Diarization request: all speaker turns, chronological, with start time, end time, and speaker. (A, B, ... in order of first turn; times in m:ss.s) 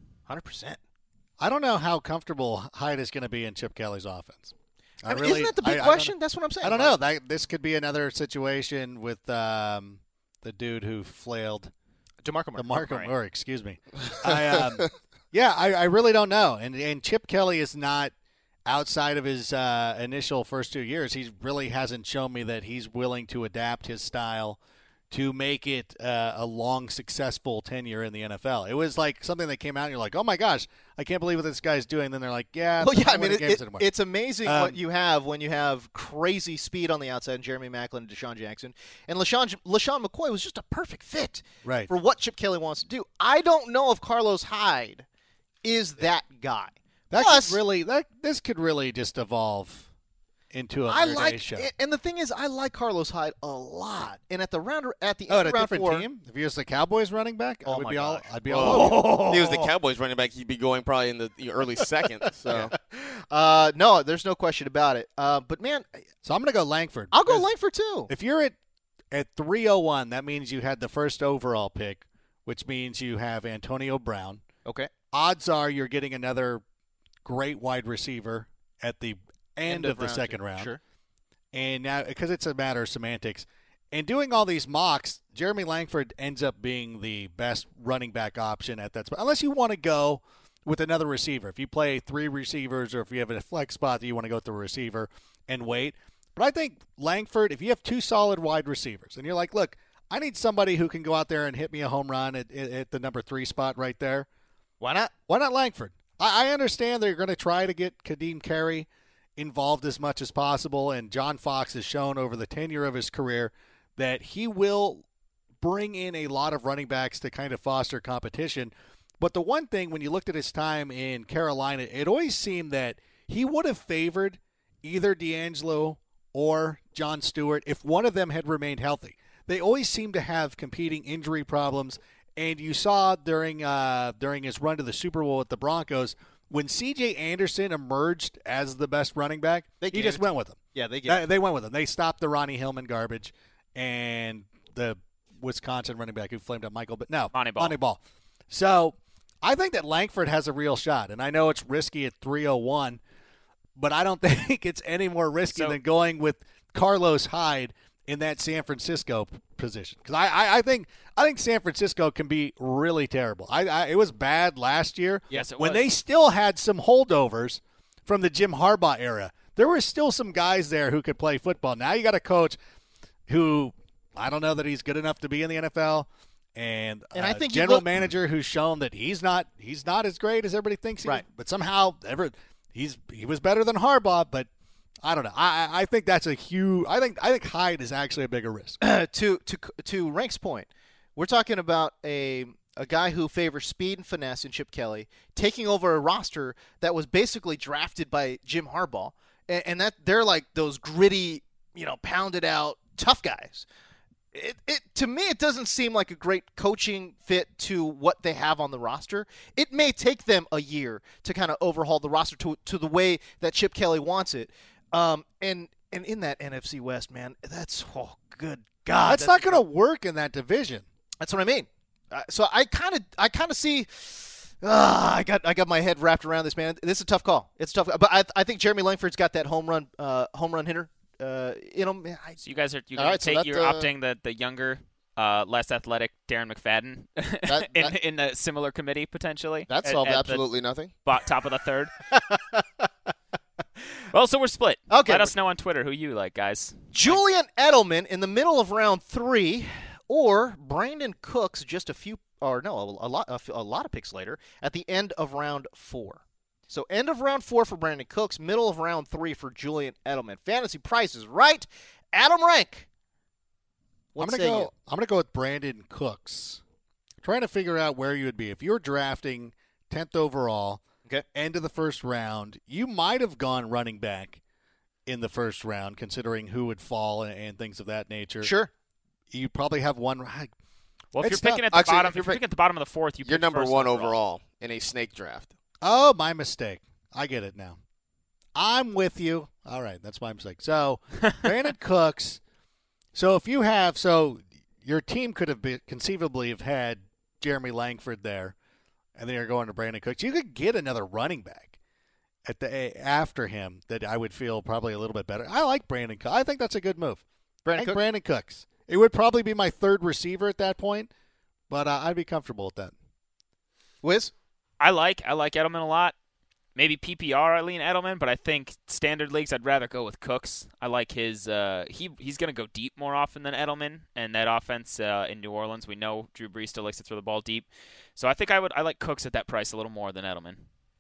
0:00.3-0:00.8 A
0:01.4-0:11.7 B
0:05.1-0:07.0 A
0:12.2-0:13.1 A
0:12.6-0:18.1 B
0:18.7-0:24.6 B
0:25.1-0:33.9 B
0:32.8-0:45.0 A
0:34.4-0:34.8 B
0:41.6-0:41.9 B
0:45.6-0:47.6 A
0:47.1-0:49.9 B
0:50.5-0:51.7 B
0:50.9-0:56.1 A
0:55.3-0:59.1 B
0:57.6-0:59.7 A
0:58.5-1:02.7 C
1:02.5-1:06.1 A
1:06.2-1:07.5 B
1:07.1-1:08.1 A
1:08.1-1:08.6 B
1:09.1-1:14.4 B
1:14.6-1:14.9 A
1:15.1-1:16.6 B
1:17.2-1:20.7 B
1:19.7-1:20.8 A
1:21.5-1:44.3 B
1:44.8-1:45.1 A
1:45.3-1:55.0 B
1:55.6-2:33.0 B
2:19.8-2:21.2 A
2:27.3-2:27.8 D
2:33.8-2:52.6 B
2:35.5-2:35.8 D
2:45.3-2:45.9 D
2:53.3-3:04.5 B
2:57.2-2:58.0 A
3:05.0-3:08.8 B
3:08.8-3:23.7 A
3:24.3-3:39.6 A
3:39.0-3:40.8 B
3:41.2-3:52.4 A
3:52.4-4:00.4 D
3:53.0-3:53.7 A
3:57.5-3:58.0 A
3:59.7-4:00.9 C
4:01.0-4:01.9 D
4:02.1-4:02.9 A
4:04.1-4:07.2 D
4:04.9-4:05.4 A
4:06.9-4:22.9 A
4:24.2-4:24.7 A
4:24.2-4:26.6 B
4:27.2-4:30.8 B
4:31.3-4:34.4 B
4:35.1-4:38.5 B
4:38.4-4:38.7 A
4:39.3-4:40.5 B
4:41.1-4:44.2 D
4:41.2-4:41.7 B
4:41.7-4:42.4 C
4:43.2-4:45.5 C
4:45.8-4:47.8 B
4:48.6-4:52.4 B
4:53.1-4:58.6 B
4:59.2-5:01.7 B
5:02.4-5:07.2 B
5:07.6-5:08.0 A
5:07.8-5:11.1 B
5:11.7-5:12.9 B
5:14.0-5:14.3 A
5:14.8-5:16.2 D
5:16.8-5:30.6 D